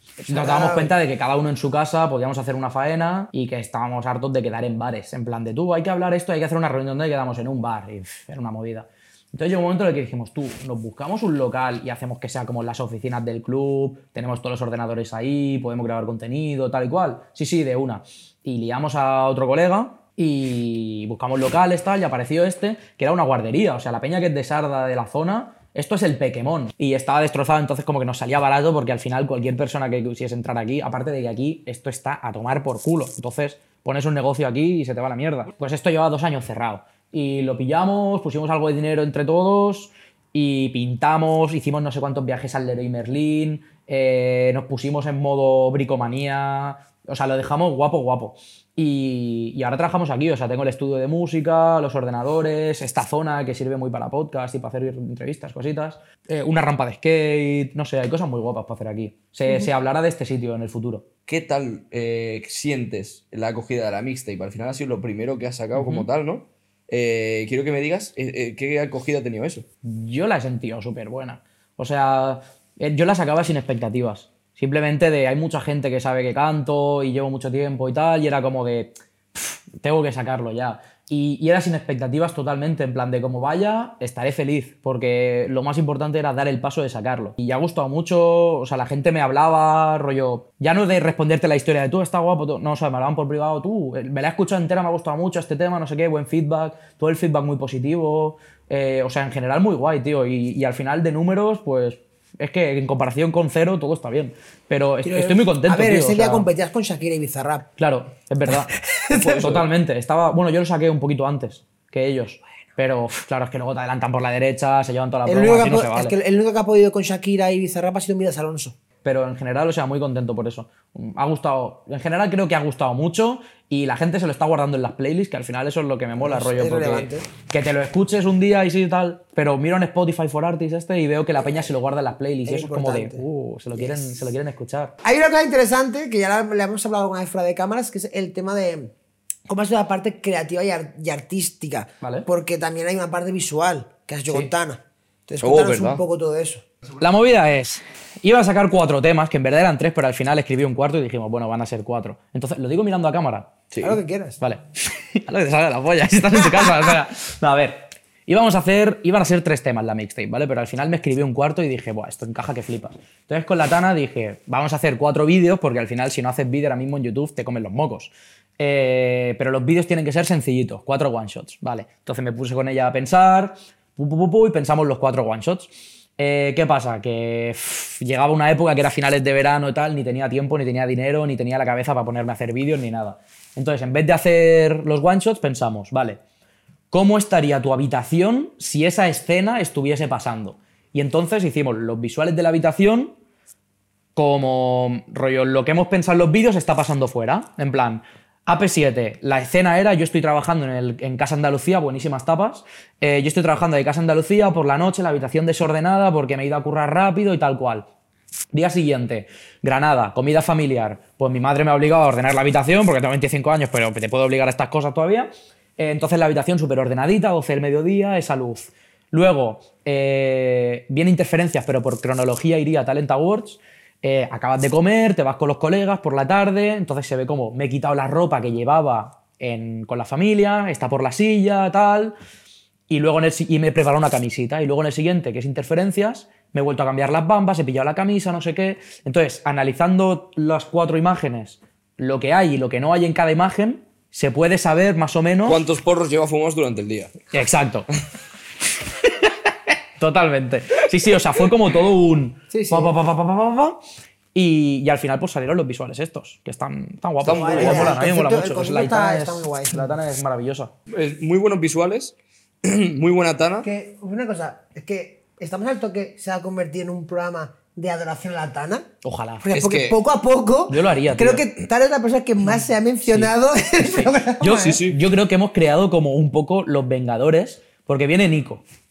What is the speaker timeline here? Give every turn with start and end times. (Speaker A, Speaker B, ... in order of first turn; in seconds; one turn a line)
Speaker A: 0.2-61.1
Speaker B: 0.3-0.9
Speaker C: 61.3-69.7
Speaker A: 65.7-66.0
Speaker A: 69.8-106.5
Speaker B: 105.0-107.7
Speaker A: 107.8-116.2
Speaker B: 108.8-109.5
Speaker C: 109.1-109.7
Speaker B: 115.2-118.8
Speaker A: 119.0-134.9
Speaker B: 126.2-127.3
Speaker B: 132.4-133.2
Speaker B: 133.8-134.1
Speaker B: 135.0-138.9
Speaker B: 139.5-146.6
Speaker A: 142.0-142.3
Speaker C: 145.4-146.0
Speaker A: 147.0-153.6
Speaker C: 153.7-154.0
Speaker B: 153.8-154.4
Speaker A: 154.4-186.2
Speaker A: 186.9-193.1
Speaker A: 194.2-207.9
Speaker A: 208.5-232.1
Speaker A: 232.9-245.6
Speaker C: 245.4-247.2
Speaker A: 247.3-247.9
Speaker A: 250.0-253.8
Speaker B: 252.5-252.9
Speaker A: 254.3-260.7
Speaker C: 257.2-258.0
Speaker B: 257.2-259.9
Speaker C: 260.9-263.7
Speaker B: 263.6-268.9
Speaker A: 269.0-269.5
Speaker B: 269.4-274.8
Speaker C: 269.5-270.0
Speaker A: 270.7-271.4
Speaker A: 273.1-278.6
Speaker C: 274.6-275.0